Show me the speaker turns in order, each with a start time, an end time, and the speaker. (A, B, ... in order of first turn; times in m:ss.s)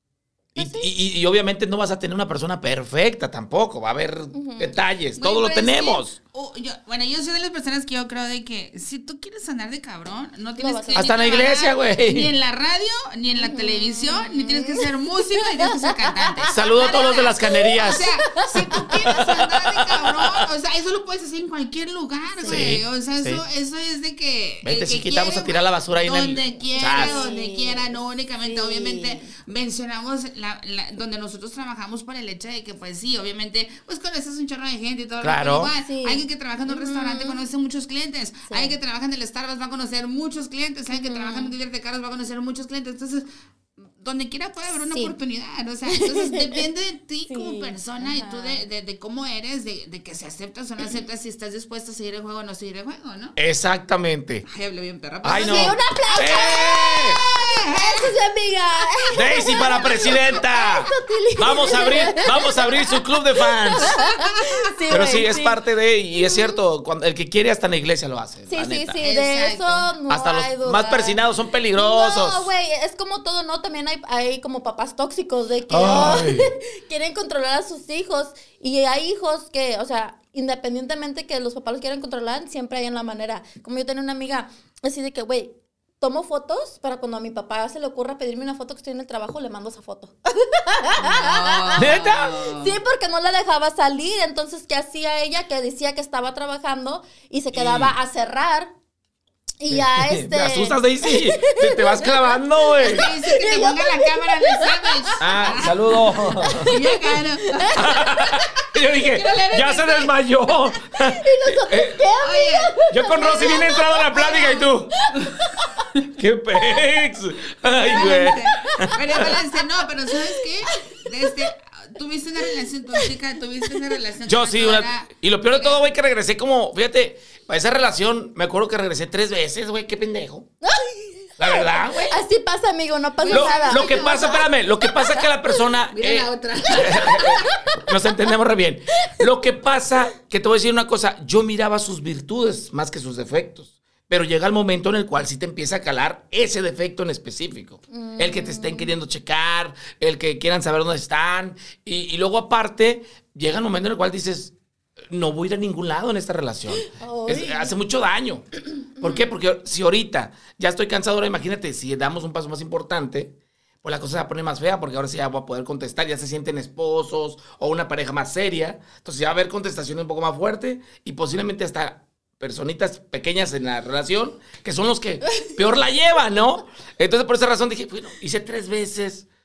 0:00.5-0:06.1 A
0:00.6-0:00.9 B
0:04.3-0:04.8 B
0:05.2-0:43.3 C
0:10.6-0:11.1 B
0:10.9-0:12.3 A
0:13.4-0:14.9 B
0:15.6-0:19.2 B
0:16.5-0:20.4 A
0:22.4-0:22.8 B
0:22.4-0:23.4 A
0:24.6-0:27.2 A
0:26.8-0:29.3 B
0:35.2-0:35.7 A
0:35.8-0:37.4 B
0:38.5-0:38.8 B
0:40.9-0:41.5 B
0:44.0-0:53.4 C
0:44.8-0:45.1 B
0:45.9-0:46.6 B
0:47.3-0:48.6 B
0:53.4-0:54.4 A
0:54.4-0:58.1 C
0:55.2-0:57.2 A
0:55.3-1:05.6 B
0:59.1-1:04.0 A
1:03.9-1:05.0 C
1:04.9-1:09.0 A
1:06.2-1:06.6 B
1:08.5-1:11.2 B
1:09.0-1:09.9 C
1:10.1-1:12.5 A
1:11.7-1:38.7 B
1:15.7-1:16.5 A
1:31.0-1:32.8 C
1:31.8-1:32.5 A
1:37.5-1:37.9 A
1:39.6-1:45.2 B
1:39.7-1:43.1 A
1:42.8-1:47.9 C
1:45.2-1:46.8 A
1:45.9-1:48.7 B
1:47.8-1:52.0 A
1:48.9-1:50.1 C
1:50.9-1:55.9 B
1:52.2-1:52.8 C
1:52.9-1:54.9 A
1:56.2-1:59.3 A
1:57.8-2:05.9 C
1:57.9-1:59.4 B
2:00.6-2:01.5 B
2:04.2-2:10.5 A
2:10.6-2:15.2 B
2:11.4-2:12.2 A
2:13.2-2:14.4 C
2:13.3-2:34.5 A
2:15.9-2:17.4 C
2:17.2-2:17.9 B
2:27.9-2:28.9 B
2:35.1-2:38.5 A
2:36.9-2:37.7 B
2:39.0-2:59.2 A